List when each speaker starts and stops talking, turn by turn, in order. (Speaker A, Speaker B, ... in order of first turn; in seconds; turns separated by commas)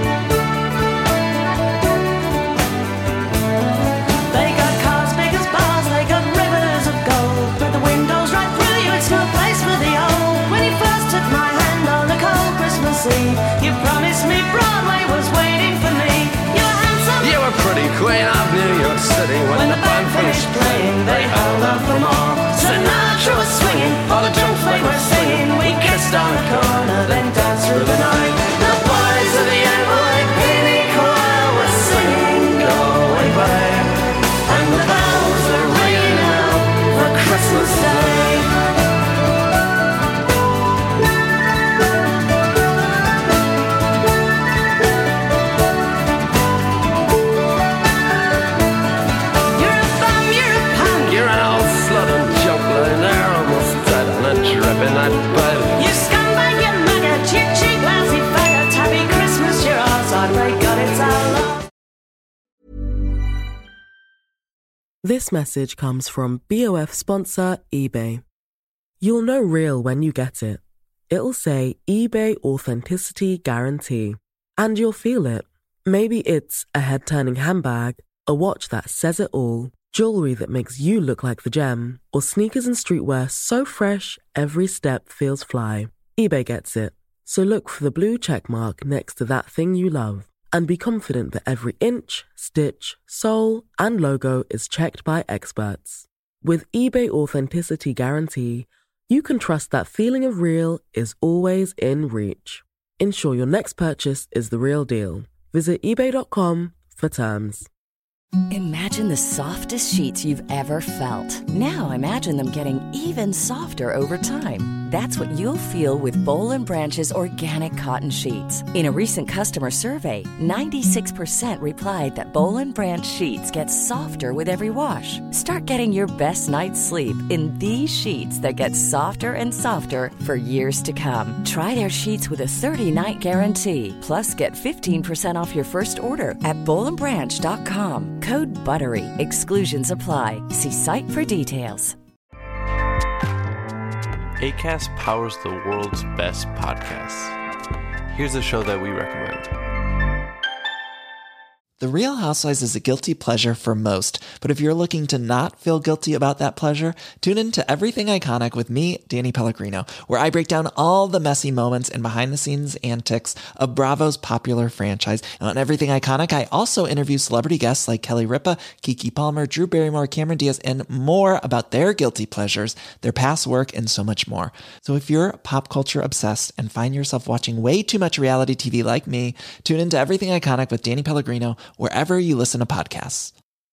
Speaker A: 4.3-17.4, Speaker B: 17.2-33.9, Speaker A: 19.5-33.9, Speaker B: 34.5-38.4, Speaker A: 34.5-38.5, Speaker A: 49.5-51.2, Speaker B: 51.0-55.7, Speaker A: 55.8-61.6, Speaker C: 65.0-68.2, Speaker C: 69.0-107.7, Speaker D: 108.5-141.9, Speaker E: 144.4-147.3, Speaker E: 148.1-149.5, Speaker F: 151.8-183.3